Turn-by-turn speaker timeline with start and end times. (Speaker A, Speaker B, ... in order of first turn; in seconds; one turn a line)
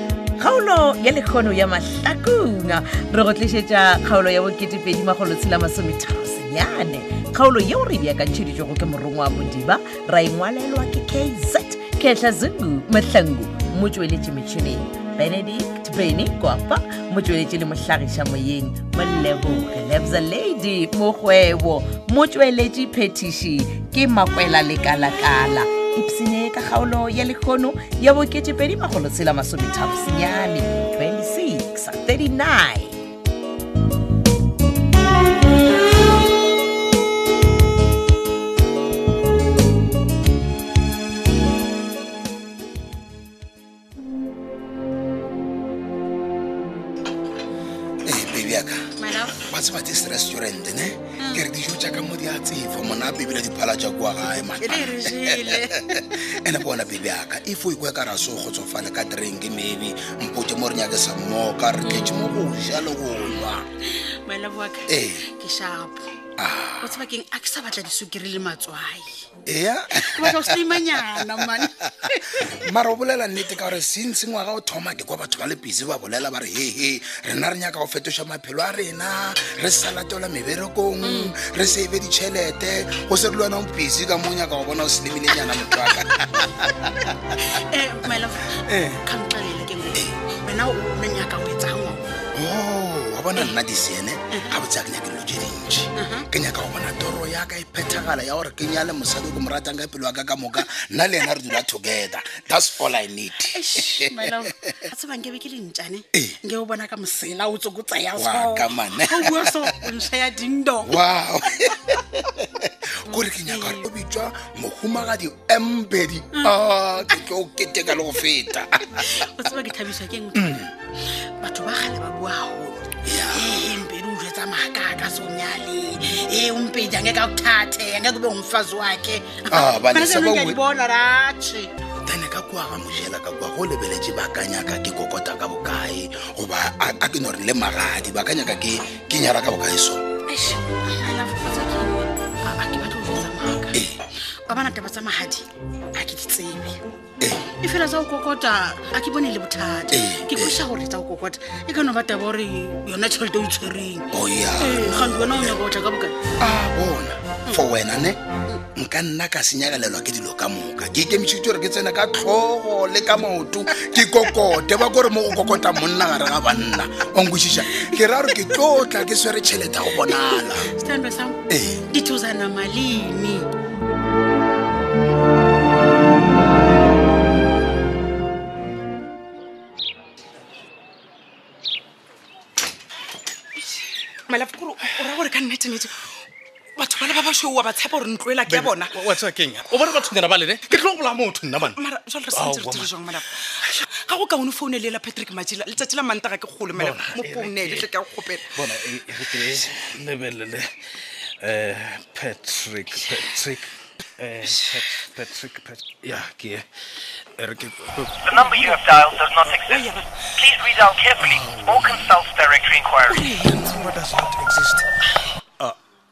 Speaker A: 0.4-33.0
Speaker B: 48.0-63.7
Speaker C: 49.0-49.5
Speaker C: 51.2-51.5
Speaker C: 54.3-56.2
Speaker C: 61.8-62.3
Speaker C: 64.2-66.0
Speaker B: 64.9-65.2
Speaker B: 66.4-67.0
Speaker C: 66.8-69.3
Speaker B: 69.5-71.7
Speaker C: 69.9-72.5
Speaker B: 72.4-87.3
Speaker C: 81.0-81.3
Speaker C: 87.4-92.2
Speaker B: 88.7-89.0
Speaker B: 92.3-104.5
Speaker C: 96.0-96.3
Speaker C: 103.5-111.0
Speaker B: 108.2-109.8
Speaker B: 110.9-119.0
Speaker C: 113.1-113.9
Speaker C: 119.0-120.7
Speaker C: 121.4-131.7
Speaker B: 123.0-123.6
Speaker B: 129.5-130.6
Speaker B: 132.1-140.1
Speaker C: 140.3-143.8
Speaker C: 144.5-146.8
Speaker B: 147.2-147.5
Speaker C: 147.6-154.1
Speaker B: 149.9-150.6
Speaker B: 154.1-155.6
Speaker C: 154.6-156.2
Speaker B: 156.4-158.2
Speaker B: 158.8-170.7
Speaker C: 170.0-173.5
Speaker B: 171.5-171.9
Speaker D: 184.3-186.0
Speaker D: 186.8-189.0
Speaker E: 188.4-191.8
Speaker D: 191.7-198.5
Speaker E: 192.3-192.9
Speaker E: 196.7-200.7
Speaker E: 201.4-206.6
Speaker E: 207.4-208.9
Speaker F: 208.2-213.3
Speaker D: 209.4-210.1
Speaker E: 211.2-212.1
Speaker D: 213.1-213.8
Speaker E: 213.2-214.9